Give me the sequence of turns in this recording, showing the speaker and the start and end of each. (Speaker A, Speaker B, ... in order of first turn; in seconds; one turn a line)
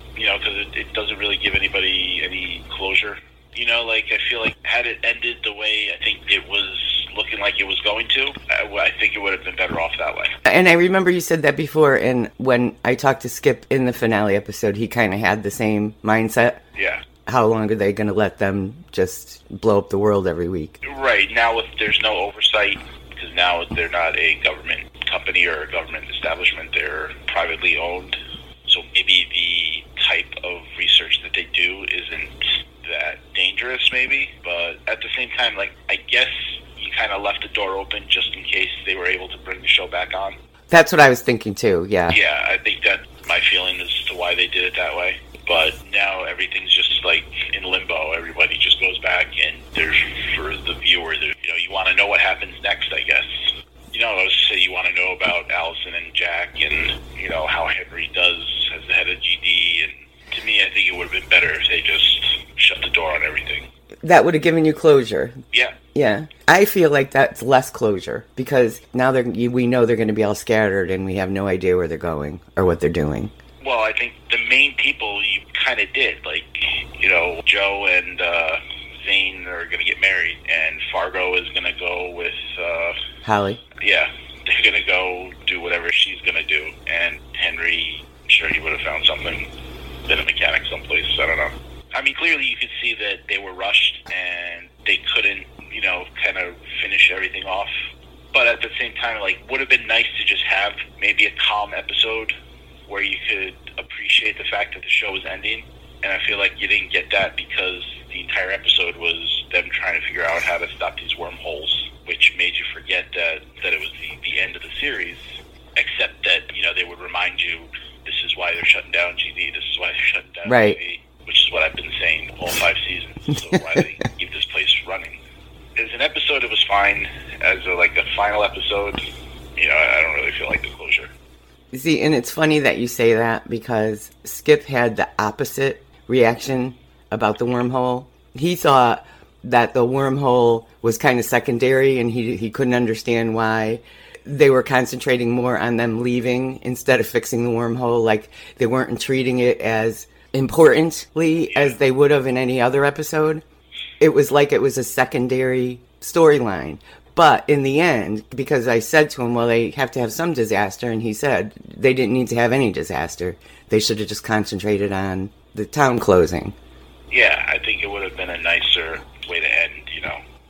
Speaker A: 0.1-10.3
Speaker B: 10.4-16.6
Speaker A: 16.7-17.0
Speaker B: 17.2-20.8
Speaker A: 20.8-40.4
Speaker B: 40.7-42.2
Speaker A: 42.1-63.7
Speaker B: 64.0-65.4
Speaker A: 65.5-65.8
Speaker B: 65.9-73.3
Speaker A: 73.6-83.0
Speaker B: 83.2-83.6
Speaker A: 83.8-89.5
Speaker A: 90.1-97.7
Speaker A: 98.3-102.3
Speaker A: 102.9-125.2
Speaker B: 120.4-120.8
Speaker A: 125.8-131.1
Speaker B: 131.7-153.4
Speaker A: 151.5-151.8
Speaker B: 154.0-166.5
Speaker A: 167.1-170.2